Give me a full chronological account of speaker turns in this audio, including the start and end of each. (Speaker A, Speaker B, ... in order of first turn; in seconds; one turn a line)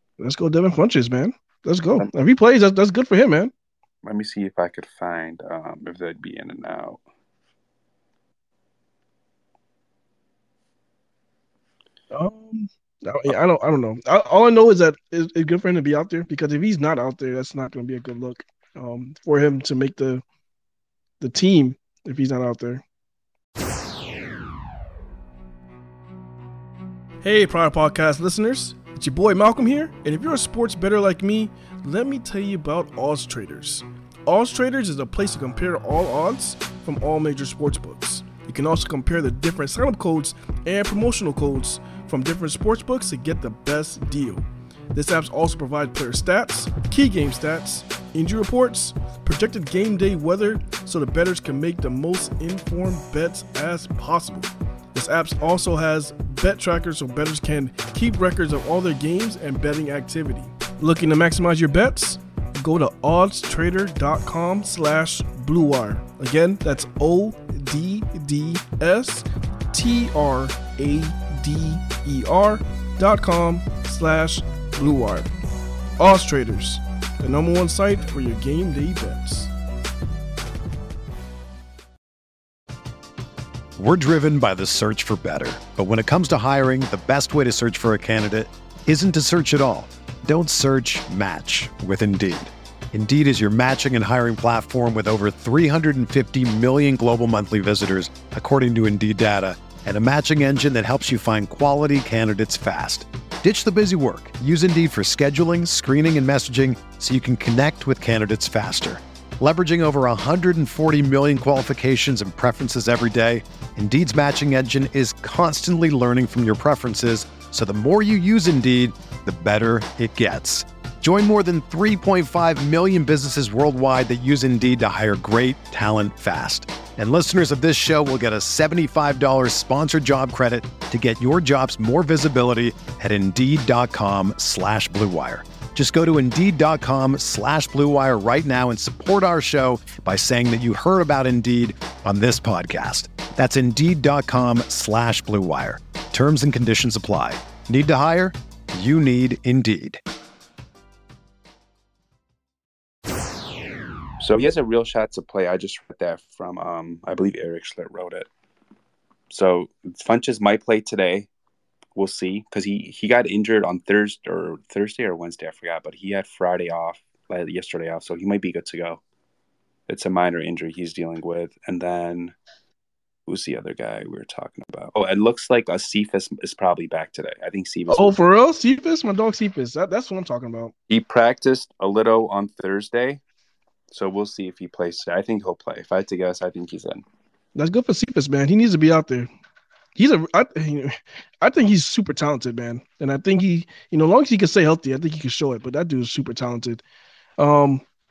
Speaker A: 0.2-3.5
Speaker B: 4.0-7.0
Speaker A: 12.1-20.2
Speaker A: 21.2-22.8
Speaker A: 27.2-75.3
Speaker A: 76.0-79.5
Speaker C: 83.8-150.0
Speaker B: 154.2-158.3
Speaker B: 159.3-161.3
Speaker B: 162.0-169.0
Speaker B: 169.9-172.3
Speaker B: 173.3-178.2
Speaker A: 177.9-180.7
Speaker B: 180.9-183.2
Speaker B: 183.9-187.0
Speaker A: 187.6-189.3
Speaker A: 190.0-196.8
Speaker A: 197.4-197.8